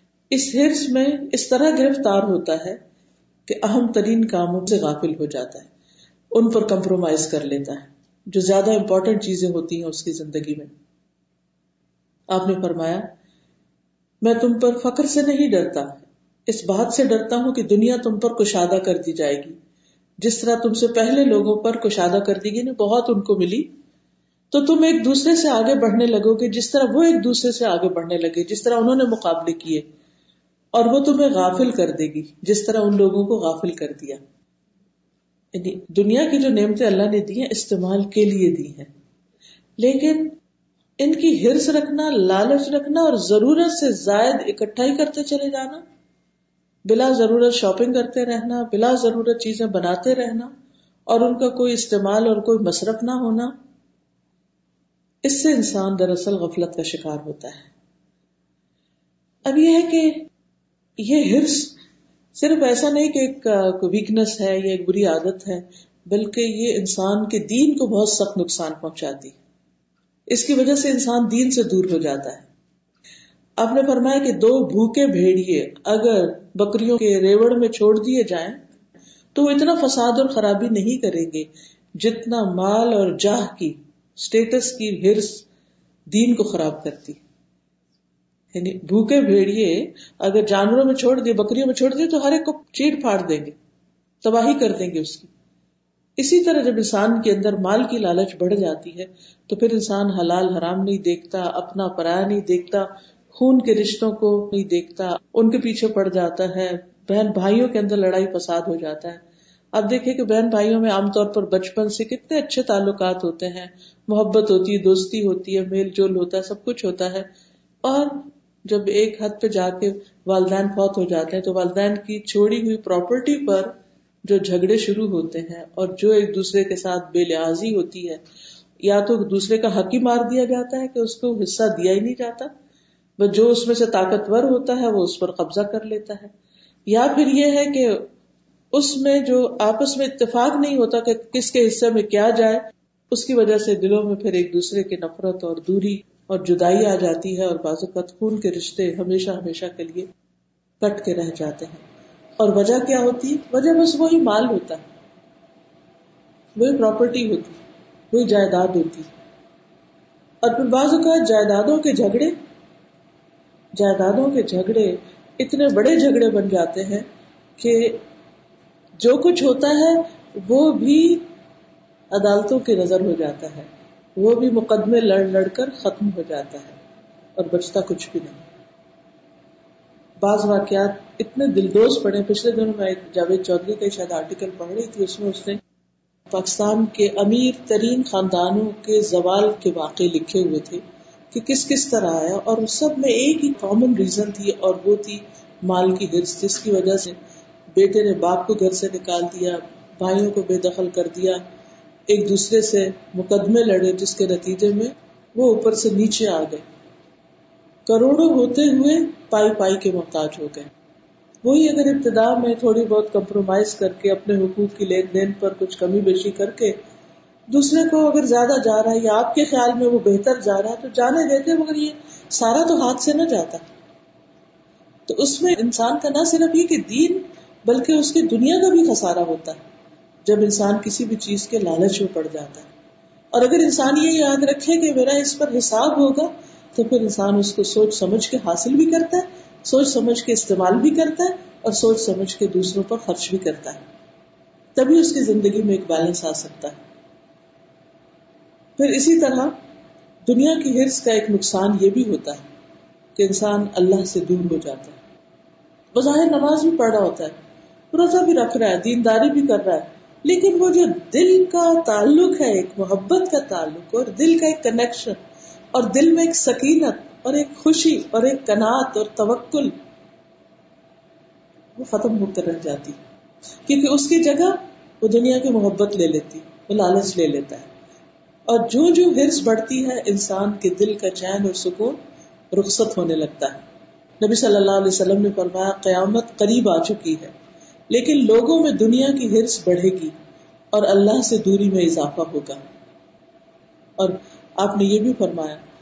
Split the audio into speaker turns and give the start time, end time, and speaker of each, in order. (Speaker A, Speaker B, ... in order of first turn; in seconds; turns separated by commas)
Speaker A: 0.3-2.8, Speaker A: 3.5-5.7, Speaker A: 6.3-10.7, Speaker A: 12.3-13.1, Speaker A: 14.2-19.6, Speaker A: 20.2-23.7, Speaker A: 24.5-29.8, Speaker A: 30.7-34.2, Speaker A: 35.5-38.9, Speaker A: 39.8-40.4, Speaker A: 41.0-45.8, Speaker A: 46.9-50.5, Speaker A: 51.1-53.5, Speaker A: 55.2-57.7, Speaker A: 59.5-60.3, Speaker A: 61.0-61.8, Speaker A: 62.4-69.3, Speaker A: 70.3-72.5, Speaker A: 73.6-78.6, Speaker A: 79.3-85.5, Speaker A: 86.1-87.2, Speaker A: 88.5-93.5, Speaker A: 94.2-95.3, Speaker A: 96.2-109.2, Speaker A: 109.7-117.3, Speaker A: 117.8-123.7, Speaker A: 124.2-128.2, Speaker A: 128.8-132.5, Speaker A: 133.2-136.3, Speaker A: 136.9-138.1, Speaker A: 138.7-150.1, Speaker A: 150.8-151.8, Speaker A: 152.4-154.8, Speaker A: 156.5-157.5, Speaker A: 158.1-159.1, Speaker A: 160.4-162.3, Speaker A: 163.7-167.1, Speaker A: 167.6-168.0, Speaker A: 169.0-171.2, Speaker A: 172.1-176.8, Speaker A: 177.4-178.4, Speaker A: 180.2-185.6, Speaker A: 186.3-197.2, Speaker A: 197.7-201.4, Speaker A: 202.1-206.6, Speaker A: 207.9-210.7, Speaker A: 211.4-216.8, Speaker A: 217.5-223.6, Speaker A: 225.1-229.6, Speaker A: 230.2-232.7, Speaker A: 233.3-243.8, Speaker A: 244.8-246.8, Speaker A: 248.8-249.6, Speaker A: 250.2-252.4, Speaker A: 253.2-255.0, Speaker A: 255.9-257.4, Speaker A: 257.9-265.2, Speaker A: 265.7-269.7, Speaker A: 271.8-273.0, Speaker A: 273.6-277.7, Speaker A: 278.5-282.0, Speaker A: 282.5-283.6, Speaker A: 284.2-287.3, Speaker A: 287.9-290.1, Speaker A: 290.7-292.6, Speaker A: 294.0-295.6